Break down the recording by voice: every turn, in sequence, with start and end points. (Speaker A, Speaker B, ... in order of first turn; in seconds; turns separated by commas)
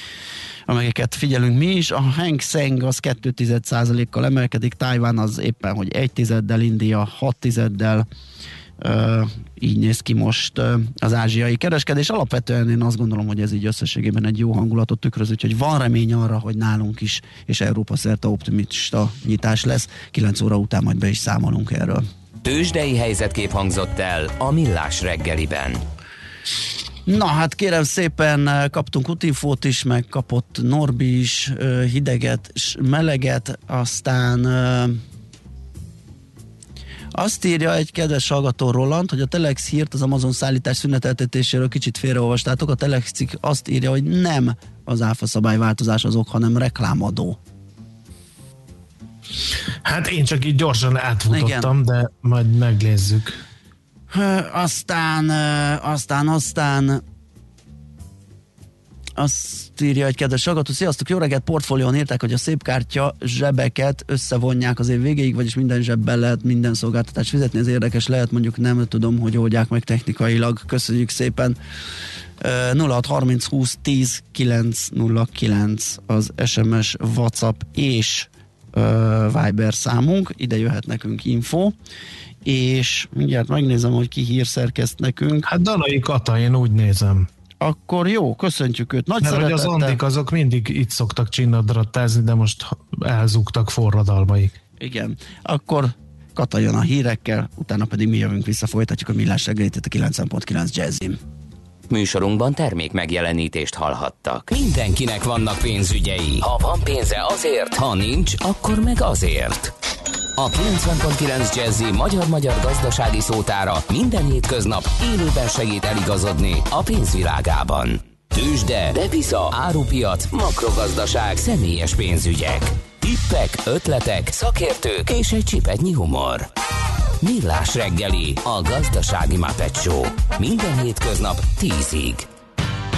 Speaker A: 0.7-8.1, Speaker A: 8.8-22.0, Speaker B: 22.4-25.8, Speaker A: 27.1-35.0, Speaker A: 37.1-47.4, Speaker C: 49.9-53.4, Speaker A: 51.3-51.7, Speaker A: 54.1-57.0, Speaker A: 59.2-71.6, Speaker A: 72.4-81.8, Speaker A: 82.4-85.5, Speaker C: 85.5-87.3, Speaker A: 87.6-90.0, Speaker C: 89.2-94.5, Speaker A: 94.8-101.2, Speaker B: 101.9-109.7, Speaker B: 110.4-126.5, Speaker B: 127.2-132.3